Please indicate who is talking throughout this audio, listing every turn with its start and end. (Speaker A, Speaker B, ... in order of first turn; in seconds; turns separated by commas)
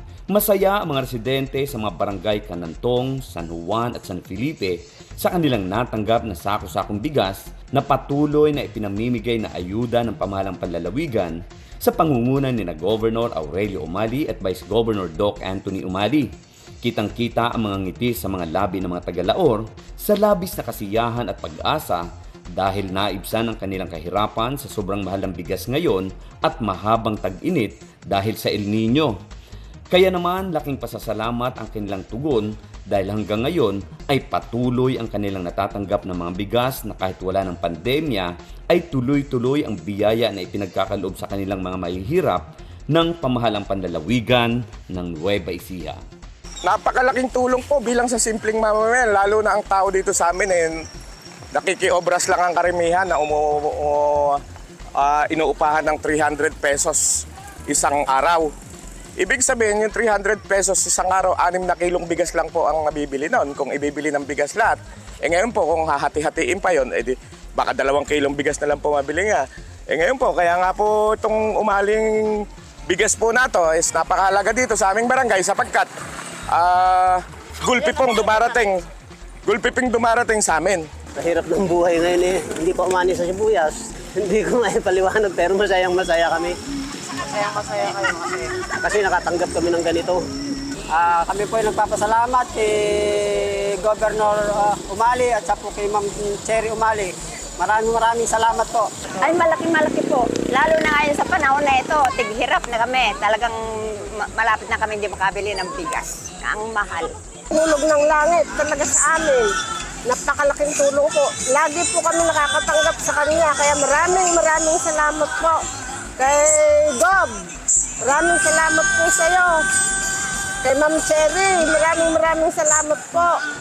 Speaker A: 0.3-29.2, Speaker A: 29.9-46.0, Speaker B: 46.6-50.8, Speaker B: 51.5-54.4, Speaker B: 55.0-58.5, Speaker B: 59.2-75.9, Speaker B: 76.5-78.8, Speaker B: 79.5-80.9, Speaker C: 81.2-86.6, Speaker D: 87.2-88.7, Speaker C: 88.7-90.2, Speaker D: 90.9-99.0, Speaker E: 99.2-107.1, Speaker F: 107.5-109.5, Speaker F: 110.0-115.6, Speaker F: 116.2-117.4, Speaker F: 118.0-119.5, Speaker F: 120.6-123.4